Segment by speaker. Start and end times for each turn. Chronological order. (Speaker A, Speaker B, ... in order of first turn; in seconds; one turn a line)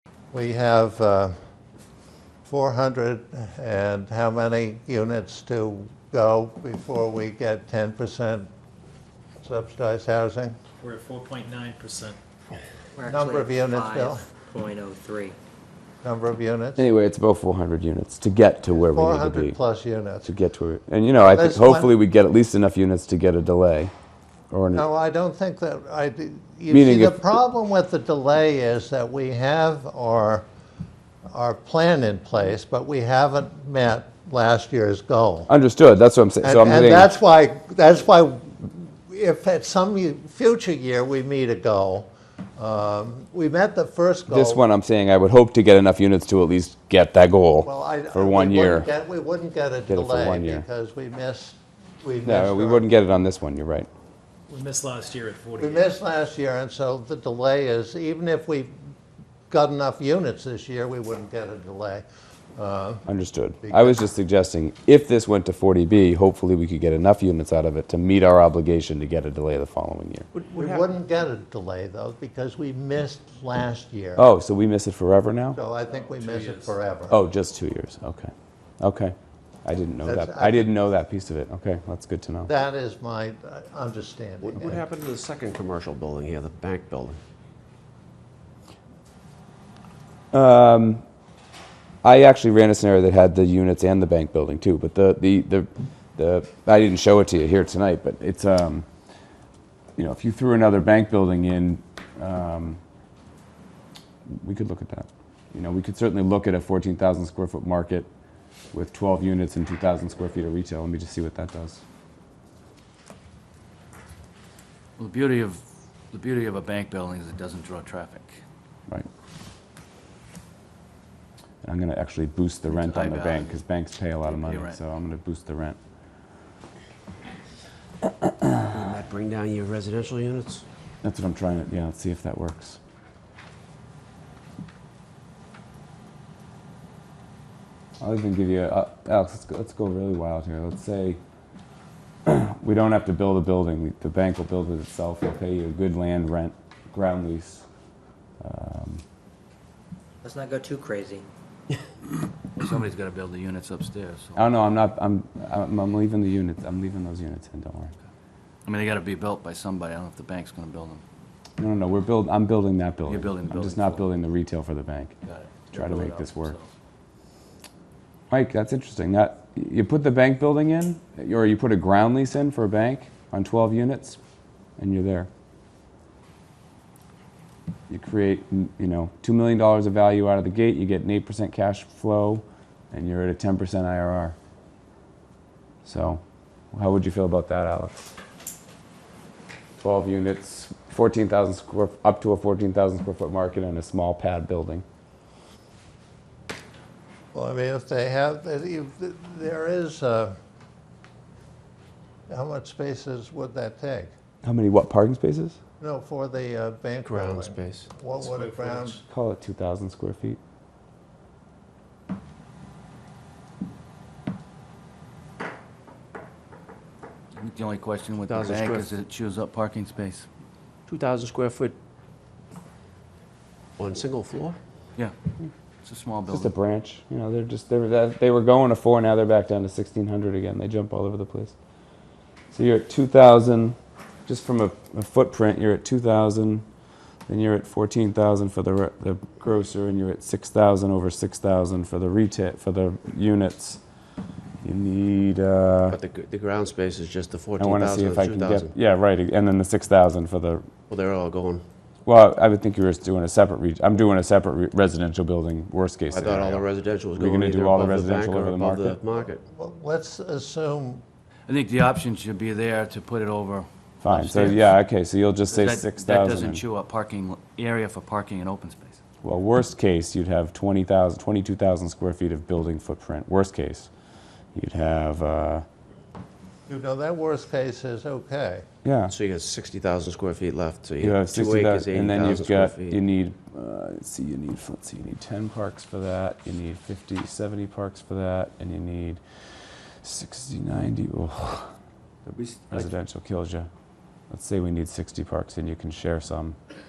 Speaker A: 0.3-1.5
Speaker A: 2.4-8.5
Speaker A: 9.4-10.6
Speaker B: 10.8-12.2
Speaker C: 12.9-15.3
Speaker A: 13.0-14.3
Speaker A: 16.0-16.8
Speaker D: 16.8-19.6
Speaker A: 18.7-20.3
Speaker D: 20.2-23.9
Speaker A: 21.2-21.9
Speaker D: 24.5-24.8
Speaker A: 24.7-30.4
Speaker D: 26.7-27.4
Speaker A: 31.3-35.5
Speaker D: 35.5-37.1
Speaker A: 36.4-44.6
Speaker D: 44.3-48.9
Speaker A: 47.6-52.9
Speaker D: 49.9-50.6
Speaker D: 52.2-53.9
Speaker B: 54.5-55.9
Speaker A: 55.6-58.8
Speaker A: 59.5-63.0
Speaker D: 63.0-70.3
Speaker A: 63.6-64.0
Speaker E: 70.3-70.9
Speaker A: 70.5-74.3
Speaker D: 74.2-75.6
Speaker A: 75.5-77.2
Speaker F: 76.1-76.5
Speaker D: 77.1-82.5
Speaker A: 80.0-80.7
Speaker A: 82.4-84.8
Speaker E: 84.4-87.2
Speaker D: 90.3-91.0
Speaker D: 92.0-98.8
Speaker D: 100.0-102.8
Speaker D: 104.3-108.1
Speaker D: 108.7-111.8
Speaker F: 115.0-118.4
Speaker D: 121.6-125.8
Speaker F: 122.7-123.6
Speaker F: 124.2-124.8
Speaker E: 128.7-130.6
Speaker D: 131.0-132.8
Speaker D: 138.0-141.2
Speaker D: 142.2-147.6
Speaker D: 148.4-149.0
Speaker C: 150.2-151.3
Speaker F: 152.5-154.4
Speaker D: 154.3-157.9
Speaker F: 158.6-161.0
Speaker D: 161.6-165.1
Speaker F: 163.0-164.1
Speaker F: 165.2-166.7
Speaker D: 165.7-166.5
Speaker D: 168.3-174.2
Speaker D: 174.8-175.3
Speaker D: 177.9-184.3
Speaker D: 185.8-188.1
Speaker D: 189.8-194.8
Speaker A: 197.3-200.3
Speaker A: 202.3-204.1
Speaker D: 204.4-205.6
Speaker A: 205.8-209.0
Speaker E: 207.0-207.9
Speaker B: 208.2-209.0
Speaker D: 209.1-210.4
Speaker F: 217.3-220.3
Speaker E: 218.2-218.9
Speaker E: 220.9-221.8
Speaker E: 223.8-224.6
Speaker F: 225.8-226.5
Speaker D: 226.3-231.5
Speaker D: 232.5-236.7
Speaker D: 237.3-243.8
Speaker D: 244.6-246.0
Speaker E: 245.9-248.7
Speaker D: 247.6-250.7
Speaker E: 250.9-251.6
Speaker D: 252.1-259.0
Speaker E: 256.1-259.4
Speaker A: 259.5-261.0
Speaker F: 261.5-264.8
Speaker D: 264.0-266.6
Speaker F: 265.5-269.0
Speaker D: 269.2-273.9
Speaker D: 274.5-275.6
Speaker A: 276.7-278.6
Speaker D: 278.8-279.1
Speaker E: 279.1-283.0
Speaker D: 281.0-291.7
Speaker F: 292.3-292.9
Speaker D: 292.7-293.7
Speaker D: 294.3-296.6